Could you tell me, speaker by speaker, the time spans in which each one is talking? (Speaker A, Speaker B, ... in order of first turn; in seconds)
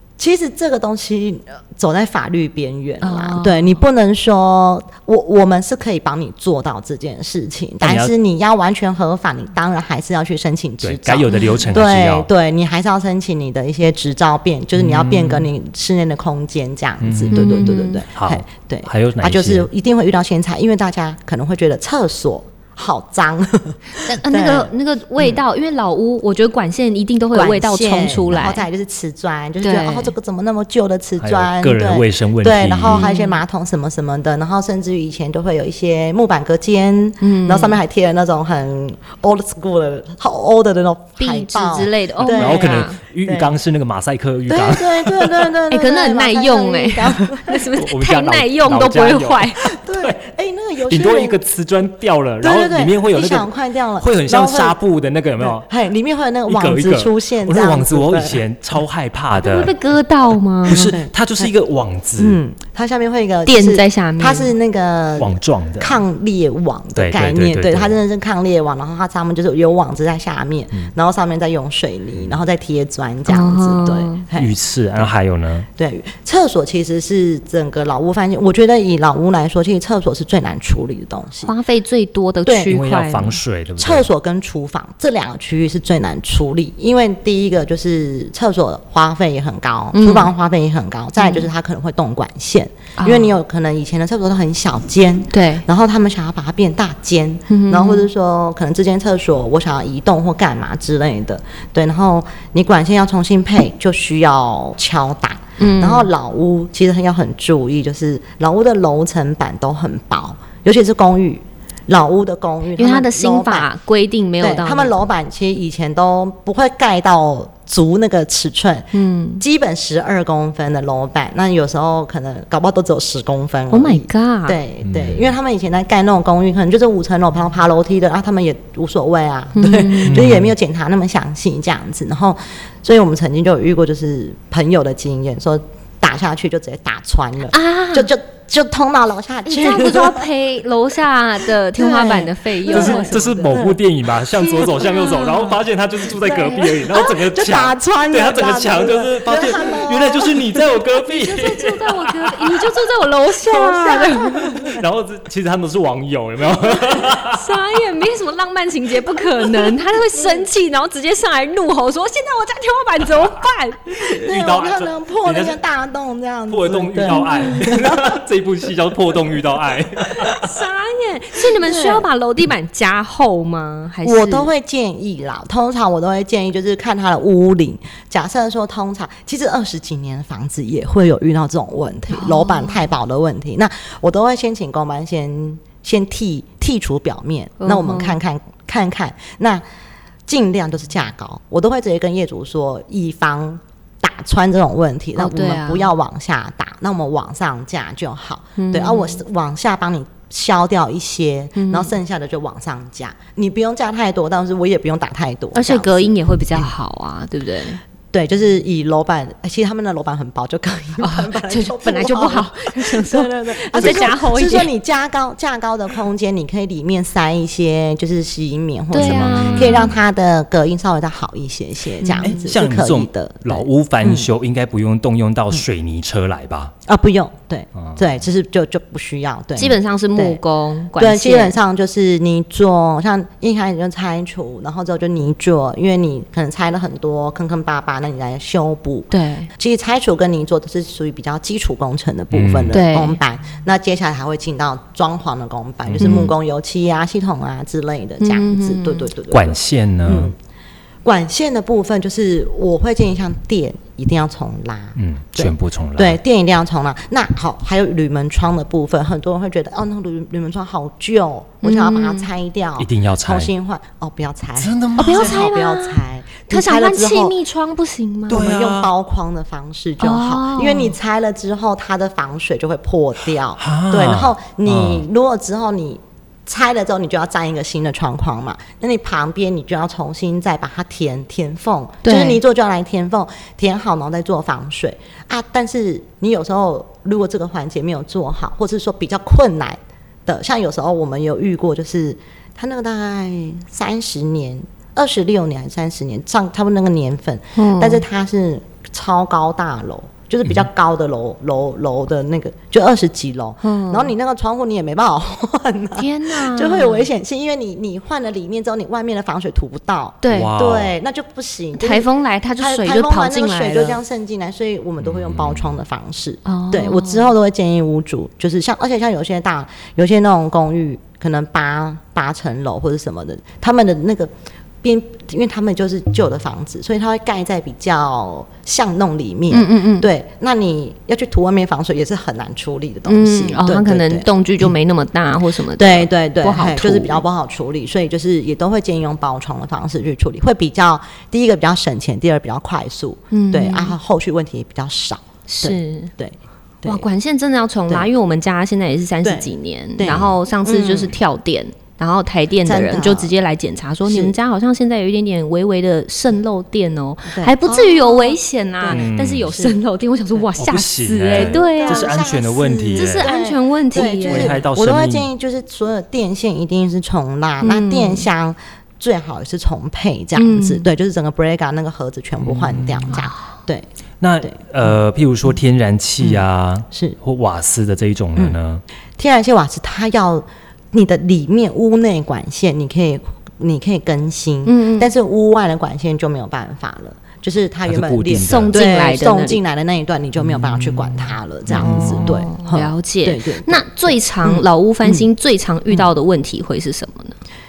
Speaker A: 0.2-25.4, 27.3-43.5, 44.5-47.6, 49.6-51.4, 52.4-54.8, 55.4-58.4, 60.7-61.5, 62.2-75.1, 75.8-81.5, 82.5-82.8, 83.8-113.7, 114.4-140.2, 141.7-143.8, 144.4-145.2, 146.2-150.4, 153.5-154.8, 164.0-168.2, 171.6-172.1, 174.0-189.6, 190.3-206.6, 208.1-224.3, 226.9-230.4, 231.0-250.3, 251.0-267.3, 268.3-324.3, 324.8-334.7, 335.8-347.0, 349.2-351.1, 352.6-353.3, 354.1-354.3, 357.3-359.8, 361.3-373.9, 376.2-377.2, 379.2-395.2
Speaker B: 3.0-3.8, 11.3-11.6, 17.3-18.0, 24.0-28.6, 29.6-30.1, 32.9-33.4, 37.2-37.8, 41.2-43.0, 45.7-49.7, 59.3-60.9, 63.5-64.5, 73.3-74.2, 81.4-83.4, 89.9-90.3, 91.2-91.5, 93.0-93.3, 95.3-95.6, 97.5-98.1, 105.6-106.1, 112.8-114.9, 118.9-119.4, 123.7-124.6, 129.6-130.3, 137.5-138.1, 139.5-143.5, 144.6-145.5, 146.4-146.8, 151.1-154.6, 156.9-163.9, 167.1-167.7, 170.3-174.5, 182.1-182.8, 187.6-188.2, 195.2-195.9, 198.6-199.2, 201.6-201.9, 205.5-207.8, 211.0-214.7, 218.9-219.9, 222.0-222.4, 229.6-231.6, 239.1-239.5, 242.7-243.2, 246.0-246.3, 248.2-249.1, 261.6-262.3, 265.0-268.4, 270.0-270.9, 282.0-282.4, 297.6-298.0, 303.6-304.1, 305.9-307.1, 310.2-310.5, 311.8-314.0, 316.4-317.3, 329.5-330.1, 333.1-337.2, 343.3-343.9, 345.5-346.1, 346.8-362.1, 362.9-364.6, 367.6-368.2, 370.4-370.9, 384.6-385.1, 388.4-389.6, 391.8-397.4
Speaker C: 7.8-8.1, 10.8-12.3, 14.7-15.5, 17.0-19.7, 31.2-33.1, 42.2-45.5, 47.7-50.2, 50.9-55.7, 56.5-59.7, 60.6-62.4, 65.2-66.0, 67.0-68.0, 74.3-75.7, 82.7-84.1, 124.8-125.3, 130.1-130.5, 142.7-152.7, 154.6-157.6, 164.0-165.6, 166.5-170.6, 213.8-214.1, 218.9-220.0, 222.2-226.7, 242.3-242.8, 245.8-246.3, 249.3-250.3, 254.9-256.2, 262.8-263.5, 264.6-265.4, 268.3-268.9, 273.6-275.0, 310.3-310.9, 315.0-315.7, 350.1-350.4, 358.9-359.5, 360.6-363.3, 364.0-365.3, 372.4-373.2, 374.2-378.8, 387.9-388.8, 390.4-392.3